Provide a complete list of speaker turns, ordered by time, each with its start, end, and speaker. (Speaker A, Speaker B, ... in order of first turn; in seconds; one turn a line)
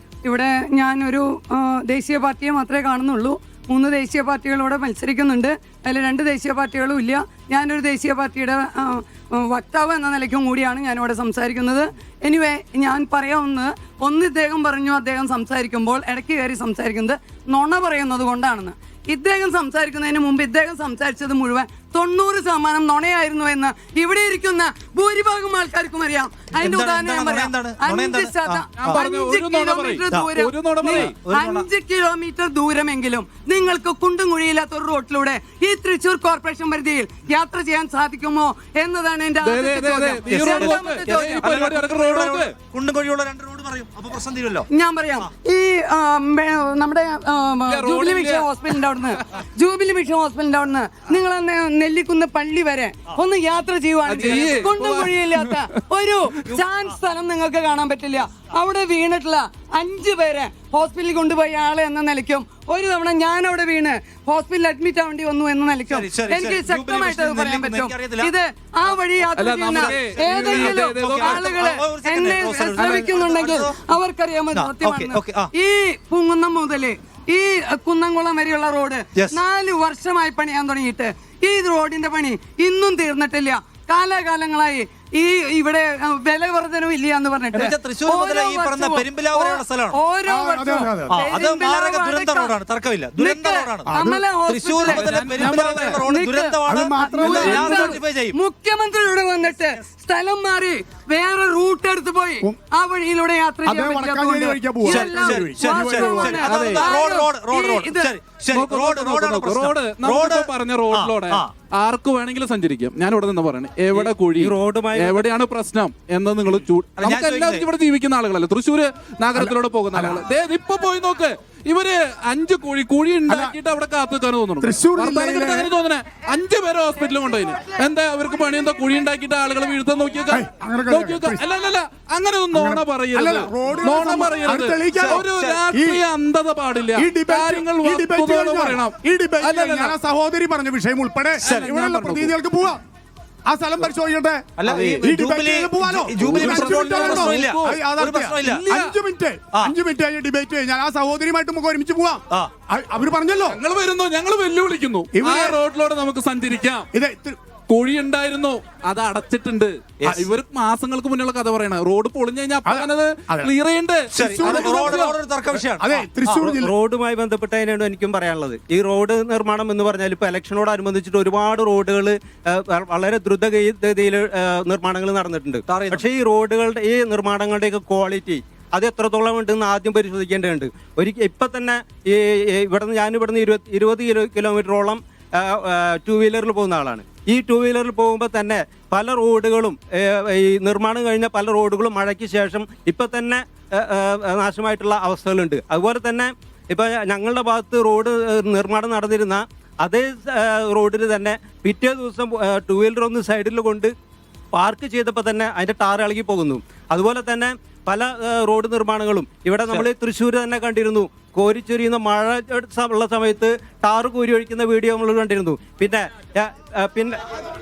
Speaker A: 0.2-41.6
Speaker B: 26.5-29.0
Speaker C: 28.8-31.1
Speaker B: 30.9-31.7
Speaker C: 39.4-42.5
Speaker B: 40.3-44.7
Speaker A: 44.7-92.5
Speaker C: 47.7-48.5
Speaker C: 54.1-55.7
Speaker B: 65.9-68.3
Speaker C: 69.4-71.6
Speaker B: 69.7-73.8
Speaker C: 72.7-73.7
Speaker B: 74.5-75.5
Speaker B: 87.5-90.0
Speaker D: 90.3-91.2
Speaker B: 91.1-93.9
Speaker A: 93.2-108.2
Speaker D: 93.9-94.2
Speaker B: 94.5-98.4
Speaker C: 94.9-96.0
Speaker D: 96.7-97.7
Speaker C: 97.5-97.8
Speaker D: 103.7-106.5
Speaker B: 104.9-111.5
Speaker C: 106.4-107.0
Speaker C: 108.5-140.0
Speaker E: 113.9-115.3
Speaker B: 117.0-117.7
Speaker D: 119.4-120.2
Speaker D: 123.3-123.6
Speaker D: 124.6-125.7
Speaker D: 130.3-131.4
Speaker D: 132.5-136.0
Speaker B: 135.0-135.7
Speaker D: 136.9-142.8
Speaker B: 141.4-141.7
Speaker C: 141.4-142.4
Speaker D: 143.5-153.6
Speaker B: 144.6-148.7
Speaker C: 144.7-145.1
Speaker C: 146.1-147.8
Speaker C: 148.4-148.9
Speaker C: 153.5-156.9
Speaker D: 155.1-155.6
Speaker D: 156.9-157.4
Speaker C: 157.7-165.2
Speaker D: 162.7-163.5
Speaker B: 164.1-166.5
Speaker D: 164.2-165.1
Speaker D: 165.8-166.7
Speaker E: 166.4-203.9
Speaker B: 175.7-176.1
Speaker E: 204.5-217.2